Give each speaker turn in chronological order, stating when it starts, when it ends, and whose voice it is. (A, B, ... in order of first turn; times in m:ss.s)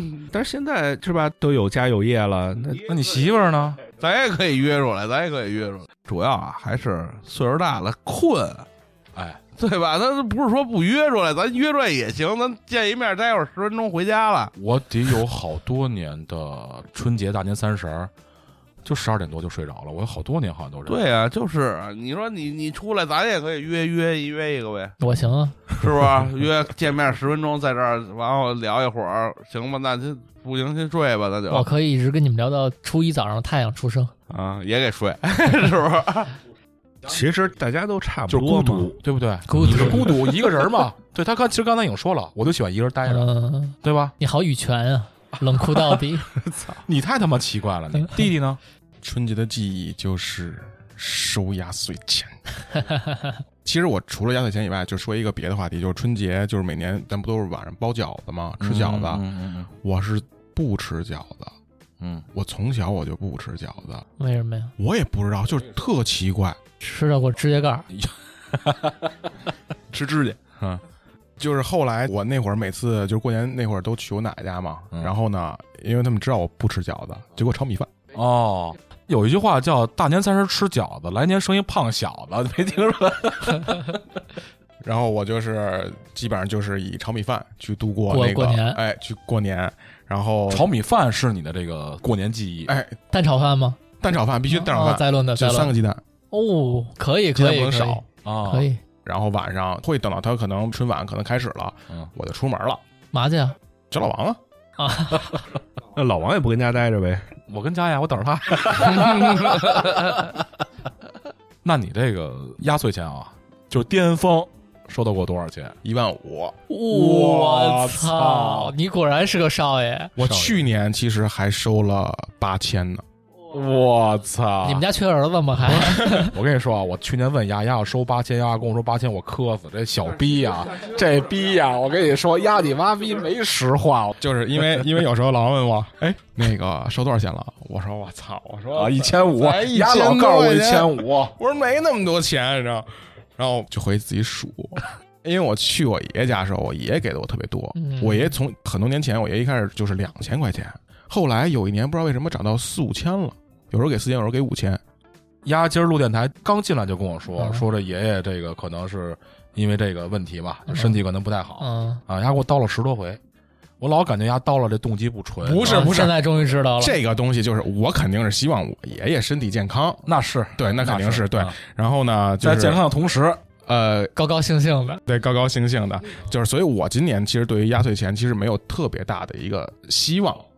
0:00.3-0:02.9 A
0:02.9-0:03.8 B
0:04.0-0:08.7 C
0:09.2-0:09.4 B
0:09.6-0:14.5 C
0:14.6-0:18.1 B
0:18.8-0:21.0 B
0:20.9-0:25.0 C
0:25.0-0:25.6 D
0:25.7-0:31.7 C
0:31.5-0:34.1 D
0:34.3-0:36.4 C
0:37.0-0:39.0 A
0:38.3-0:43.3 B
0:39.5-0:40.2 D
0:39.6-0:40.1 A
0:43.1-0:46.3 D
0:43.8-0:44.2 B
0:46.5-0:48.6 B
0:49.0-0:52.4 E
0:52.8-0:53.4 D
0:53.6-0:59.2 E
0:58.6-0:59.7 B
0:59.8-1:01.5 E
1:02.0-1:02.3 B
1:02.3-1:04.0 E
1:04.2-1:04.7 D
1:04.8-1:06.6 E
1:06.8-1:07.9 D
1:07.9-1:09.1 B
1:09.9-1:10.3 E
1:10.1-1:10.8 B
1:11.4-1:17.9 E
1:18.1-1:24.0 B
1:24.8-1:30.7 E
1:28.1-1:28.8 D
1:30.5-1:32.7 B
1:32.7-1:33.0 E
1:33.1-1:33.8 D
1:34.0-1:36.0 E
1:34.5-1:35.7 D
1:36.3-1:38.8 D
1:37.4-1:38.0 E
1:38.2-1:38.7 B
1:39.0-1:42.8 E
1:43.1-1:43.6 D
1:43.9-1:44.4 E
1:44.8-1:45.4 D
1:45.9-1:47.3 A
1:47.5-1:50.4 B
1:51.6-1:55.8 B
1:55.8-1:56.6 E
1:56.7-2:00.2 D
1:56.9-1:58.7 B
2:00.2-2:03.0 E
2:00.2-2:00.6 B
2:03.5-2:04.9 B
2:04.6-2:06.4 D
2:05.7-2:14.2 B
2:14.2-2:34.8 E
2:18.7-2:21.4 B
2:27.8-2:28.4 D
2:35.4-2:43.2 B
2:37.4-2:37.7 D
2:40.7-2:41.0 D
2:41.6-2:42.0 D
2:43.8-2:46.1 B
2:45.4-2:46.2 E
2:45.6-2:47.0 D
2:46.8-2:50.0 E
2:50.1-2:51.6 B
2:50.6-2:52.8 E
2:52.4-2:53.4 B
2:53.7-2:54.1 E
2:54.2-2:55.0 D
2:55.1-3:00.4 E